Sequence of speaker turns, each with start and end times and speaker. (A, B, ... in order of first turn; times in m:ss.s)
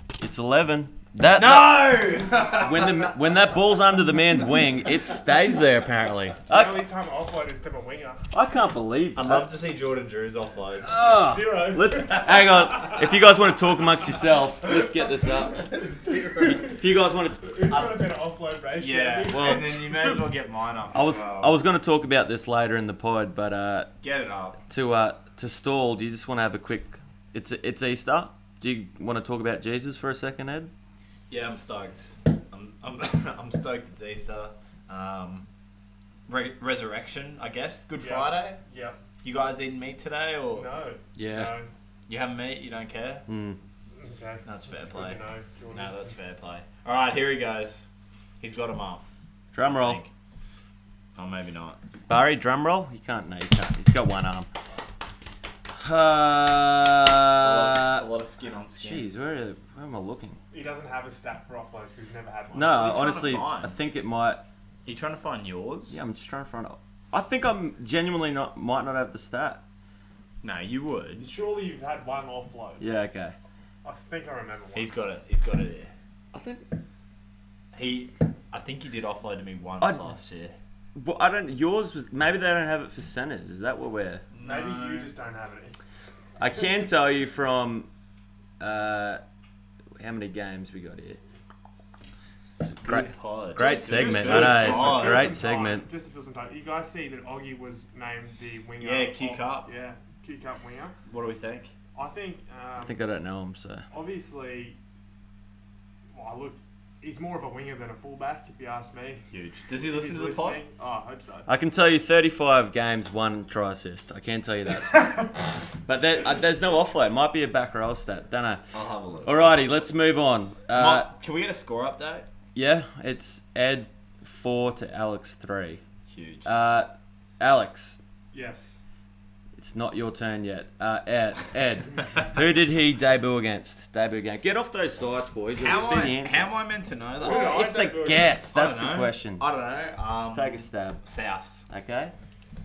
0:00.2-0:06.8 A
0:01.4-0:03.2 B
0:06.5-0:08.2 C
0:08.3-0:09.5 A
0:09.2-0:11.0 B
0:10.9-0:15.7 A
0:10.9-0:12.9 C
0:15.4-0:16.8 B
0:16.5-0:17.5 A
0:17.4-0:20.1 C
0:17.7-0:18.1 B
0:18.8-0:21.6 B
0:19.3-0:19.8 A
0:20.9-0:23.9 A
0:24.0-0:24.6 B
0:24.7-0:30.7 A
0:31.3-0:35.5 B
0:36.3-0:38.6 B
0:38.0-0:39.0 C
0:39.2-0:40.7 B
0:40.5-0:41.7 C
0:41.2-0:41.6 A
0:42.1-0:43.2 B
0:43.3-0:43.6 A
0:44.0-0:46.1 C
0:44.5-0:45.2 B
0:45.7-0:47.9 B
0:48.4-0:49.0 B
0:49.5-0:50.0 A
0:49.6-0:50.1 B
0:51.2-0:51.8 B
0:52.1-0:54.5 A
0:55.7-0:58.0 A
0:57.4-0:59.1 B
0:58.8-1:00.4 A
1:00.5-1:02.9 C
1:02.5-1:04.5 A
1:02.7-1:03.7 B
1:04.8-1:06.0 B
1:05.9-1:09.6 A
1:10.4-1:11.2 B
1:11.2-1:12.9 C
1:12.8-1:13.4 A
1:13.8-1:14.9 C
1:14.8-1:15.9 B
1:16.3-1:16.7 A
1:17.7-1:20.6 B
1:21.0-1:24.2 A
1:24.3-1:25.1 B
1:24.4-1:25.8 C
1:26.4-1:27.9 A
1:28.6-1:29.2 A
1:30.0-1:31.2 A
1:32.6-1:35.9 A
1:32.8-1:35.4 B
1:33.6-1:40.9 C
1:38.8-1:39.7 B
1:41.1-1:41.7 B
1:42.0-1:43.0 C
1:42.8-1:43.8 A
1:43.9-1:44.8 C
1:46.1-1:49.3 C
1:49.3-1:50.6 B
1:49.8-1:51.5 C
1:51.5-1:58.6 A
1:58.7-1:59.5 B
1:59.2-2:01.1 A
2:00.7-2:02.3 B
2:02.6-2:05.8 A
2:06.1-2:06.5 B
2:06.4-2:08.0 A
2:08.3-2:08.8 C
2:09.6-2:16.5 A
2:15.5-2:17.6 B
2:17.2-2:18.3 C
2:17.2-2:19.4 A
2:18.5-2:21.7 B
2:20.3-2:21.0 A
2:21.7-2:22.1 A